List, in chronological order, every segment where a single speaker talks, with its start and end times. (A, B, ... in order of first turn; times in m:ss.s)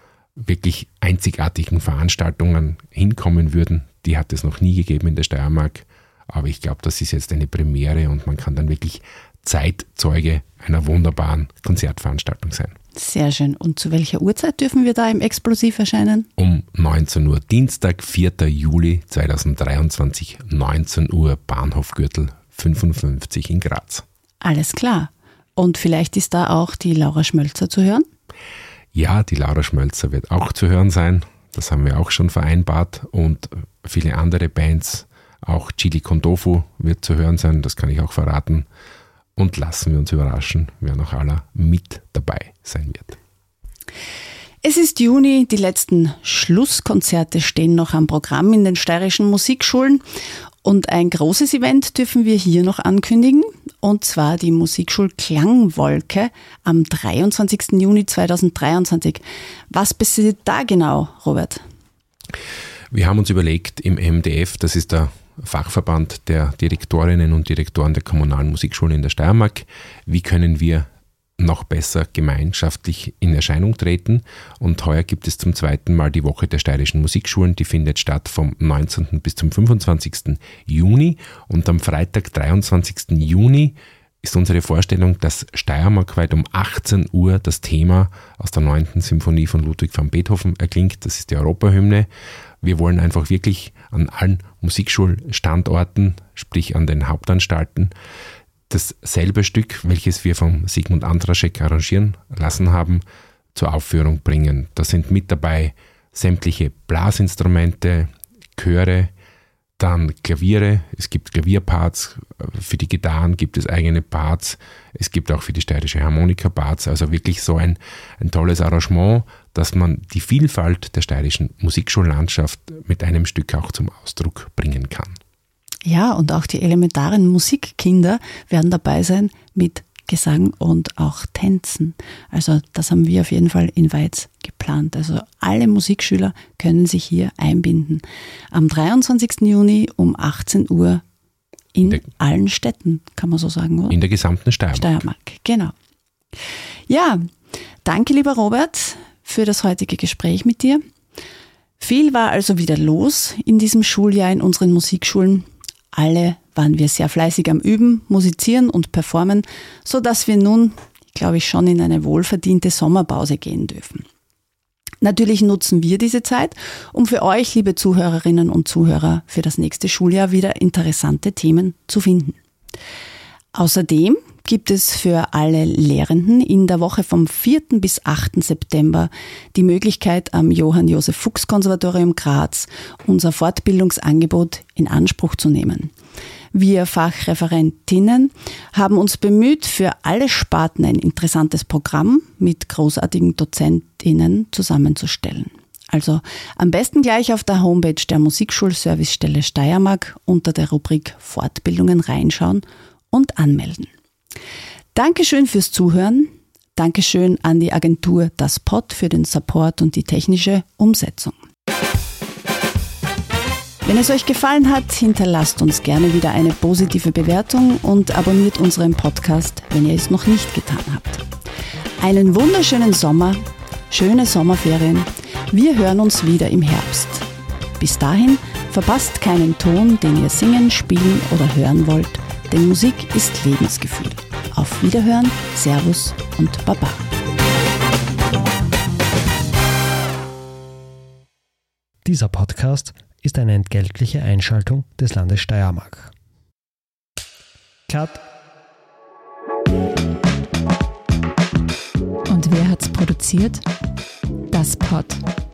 0:00.4-0:12.8 A
0:12.9-0:16.3 B
0:16.4-0:24.0 A
0:24.4-0:28.0 B
0:28.9-0:38.6 A
0:39.4-0:43.2 A
0:44.6-0:50.0 B
0:50.6-1:01.6 B
1:02.9-1:10.9 A
1:11.4-1:32.1 A
1:32.6-1:37.9 A
1:38.7-1:43.0 A
1:43.5-1:49.1 A
1:49.8-2:05.2 A
2:05.8-2:21.0 B
2:21.7-2:24.0 B
2:23.9-2:25.0 A
2:24.7-2:25.7 B
2:26.9-2:27.3 B
2:27.8-2:30.8 B
2:31.8-2:44.0 B
2:45.0-2:52.4 B
2:53.5-3:05.9 B
3:06.5-3:23.9 B
3:24.9-3:31.4 B
3:33.8-3:41.2 B
3:42.0-3:47.3 B
3:47.8-3:57.0 B
4:02.0-4:06.1 C
4:07.9-4:08.2 C
4:12.3-4:13.6 D
4:14.5-4:15.2 D